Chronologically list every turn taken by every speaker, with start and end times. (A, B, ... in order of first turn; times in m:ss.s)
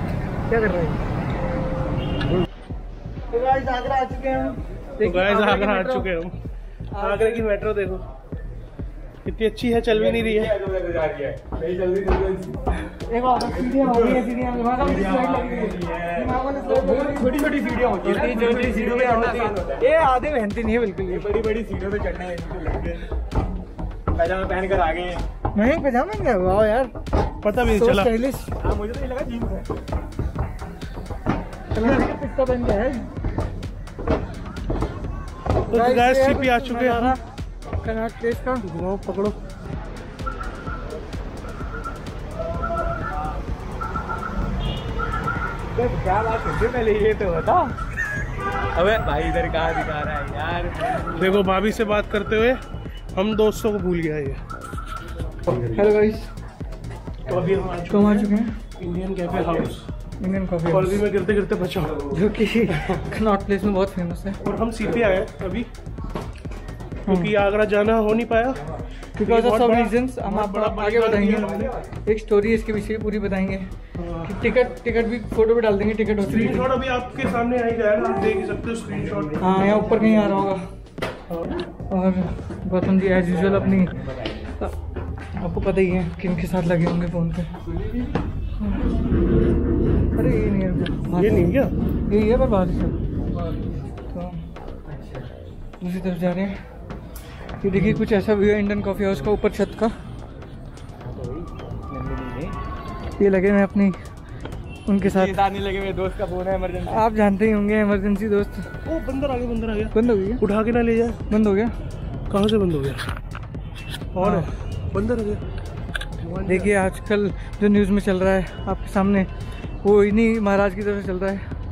0:00.5-0:01.0 A
0:03.3-0:06.1 A
0:05.0-0:06.4 B
0:06.9-0:07.4 A
0:07.0-0:08.0 B
0:09.2-0:10.5 B
0:09.9-0:12.7 C
0:13.1-0:21.2 A
0:13.3-0:19.8 C
0:21.1-0:23.0 C
0:24.1-0:25.2 C
0:25.5-0:26.9 A
0:27.4-0:28.1 B
0:27.7-0:28.5 A
0:28.6-0:29.7 C
0:31.7-0:33.0 A
0:35.7-0:37.2 B
0:35.7-0:37.2 A
0:37.8-0:38.6 A
0:38.7-0:39.4 B
0:45.7-0:47.7 C
0:48.7-0:51.2 C
0:51.1-0:52.6 B
0:53.1-0:54.4 B
0:55.5-0:56.0 C
0:55.5-0:56.3 A
0:57.3-0:59.9 B
0:57.9-0:58.5 A
1:00.2-1:01.0 A
1:00.7-1:02.1 B
1:02.1-1:04.4 A
1:04.4-1:05.7 B
1:07.1-1:07.3 A
1:07.1-1:08.6 B
1:09.2-1:11.7 B
1:09.2-1:13.7 A
1:11.3-1:11.9 C
1:14.0-1:14.4 B
1:14.2-1:16.7 A
1:16.2-1:19.5 B
1:18.9-1:20.5 C
1:19.4-1:20.6 A
1:21.9-1:24.0 A
1:23.1-1:24.4 C
1:25.4-1:27.5 A
1:27.8-1:28.1 C
1:28.6-1:28.9 A
1:30.2-1:31.5 A
1:31.2-1:31.7 B
1:32.1-1:33.0 A
1:34.1-1:34.4 A
1:34.9-1:35.3 C
1:35.8-1:36.6 A
1:37.6-1:39.9 A
1:41.0-1:42.6 C
1:43.2-1:44.0 A
1:44.9-1:45.4 A
1:45.0-1:47.0 C
1:46.9-1:48.7 A
1:48.8-1:51.2 B
1:49.9-1:50.4 A
1:51.3-1:51.7 A
1:52.3-1:53.2 B
1:54.1-1:55.4 B
1:54.2-1:54.5 A
1:56.2-1:56.8 B
1:56.4-1:59.3 A
1:59.8-2:01.4 A